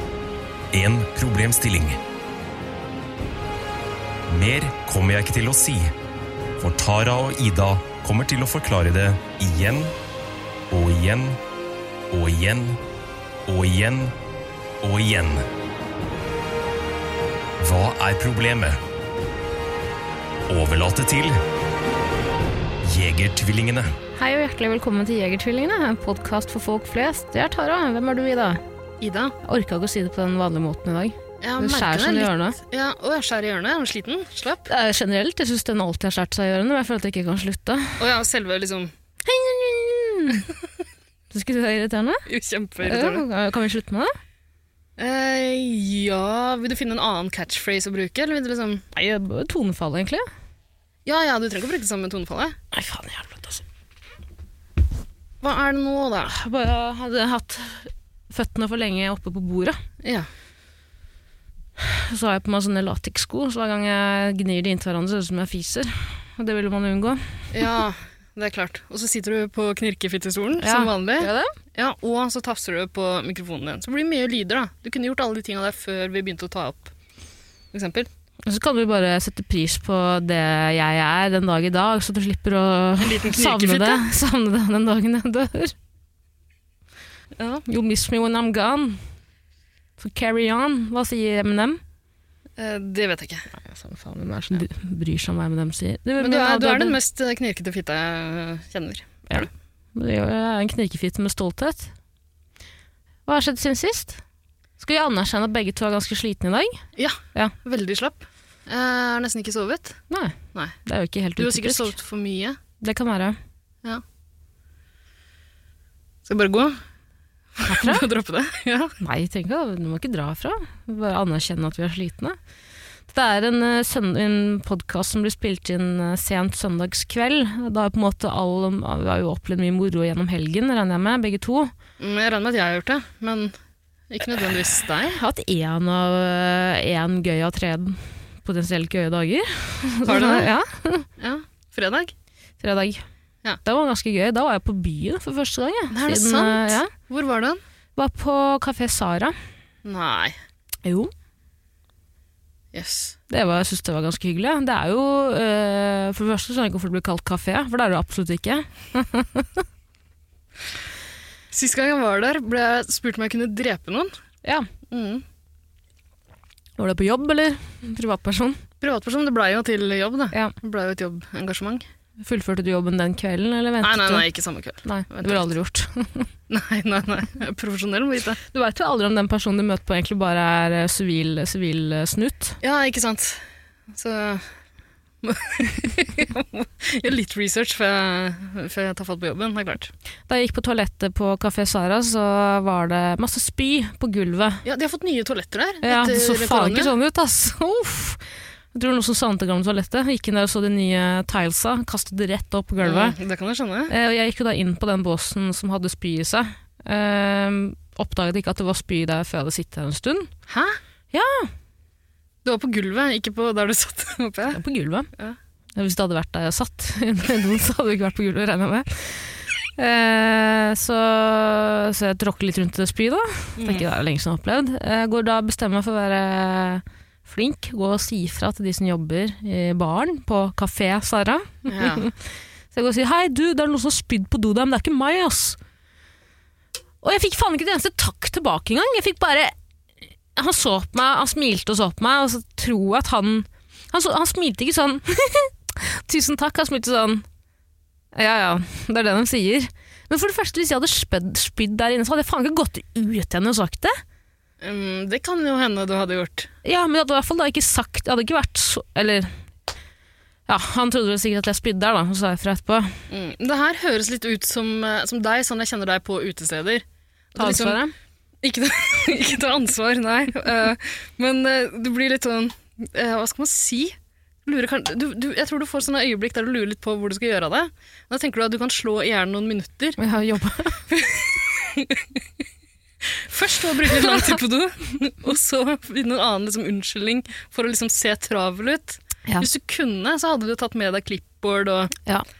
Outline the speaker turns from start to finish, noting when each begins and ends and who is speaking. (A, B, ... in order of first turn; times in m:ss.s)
0:00.7-0:02.0 A
0:04.3-0:05.9 A
0:06.6-0:09.9 A
0:10.7-0:11.4 A
0:12.1-0:12.8 A
0:13.5-0:14.1 A
0:14.8-0:15.4 A
0:17.6-0:18.8 A
0:20.5-0:21.4 A
0:22.8-0:23.9 A
0:24.1-0:28.6 B
0:29.0-0:29.3 C
0:29.4-0:32.6 B
0:31.4-0:34.7 C
0:34.7-0:38.0 B
0:38.0-0:38.9 C
0:39.2-0:40.5 B
0:41.3-0:42.2 B
0:42.3-0:43.2 C
0:42.8-0:44.1 B
0:45.0-0:48.8 C
0:48.9-0:50.2 B
0:51.0-0:52.6 C
0:52.7-0:53.6 B
0:55.4-0:56.3 C
0:56.2-0:59.8 B
1:00.0-1:00.3 C
1:01.8-1:07.6 B
1:07.5-1:16.9 C
1:10.6-1:11.5 B
1:17.7-1:18.1 C
1:18.4-1:25.7 B
1:23.0-1:24.0 C
1:27.4-1:27.6 C
1:27.6-1:29.0 B
1:30.0-1:31.8 B
1:32.6-1:33.5 C
1:33.5-1:37.0 B
1:36.2-1:39.4 C
1:39.3-1:41.9 B
1:43.3-1:44.2 B
1:44.8-1:46.8 B
1:47.0-1:50.0 C
1:50.1-1:52.0 B
1:51.4-1:52.6 C
1:52.8-1:53.4 B
1:56.2-1:56.8 C
1:57.6-1:59.0 C
1:57.6-1:58.1 B
1:59.0-2:02.4 B
2:03.1-2:11.7 B
2:12.0-2:13.6 C
2:14.1-2:15.2 C
2:15.0-2:21.1 B
2:20.0-2:20.5 C
2:21.2-2:22.1 C
2:22.6-2:23.0 B
2:23.6-2:26.9 B
2:25.9-2:27.6 C
2:28.0-2:29.3 B
2:29.8-2:30.4 C
2:30.8-2:31.1 B
2:32.7-2:33.2 C
2:33.3-2:39.6 B
2:41.5-2:44.1 C
2:44.9-2:45.2 C
2:46.8-2:48.6 B
2:48.8-2:51.8 C
2:52.2-2:54.3 B
2:53.8-2:55.5 C
2:54.8-2:56.3 B
2:56.5-2:58.4 C
2:58.5-3:02.6 B
3:02.6-3:04.5 C
3:05.2-3:09.9 C
3:10.3-3:14.6 B
3:14.6-3:16.9 C
3:15.8-3:18.2 B
3:18.7-3:23.2 B
3:22.8-3:23.9 C
3:23.9-3:30.3 B
3:30.5-3:30.8 C
3:31.1-3:31.5 B
3:32.4-3:34.6 C
3:34.5-3:35.1 B
3:35.8-3:52.2 B
3:43.6-3:43.8 C
3:51.7-3:52.1 C
3:52.7-3:55.6 B
3:57.0-3:59.5 B
4:00.3-4:07.2 B
4:08.1-4:14.0 B
4:14.6-4:16.5 C
4:16.6-4:19.3 B
4:20.5-4:23.0 B
4:23.1-4:27.8 C
4:27.4-4:27.9 B
4:28.4-4:40.0 C
4:40.0-4:40.8 B
4:40.9-4:42.2 C
4:43.0-4:51.9 C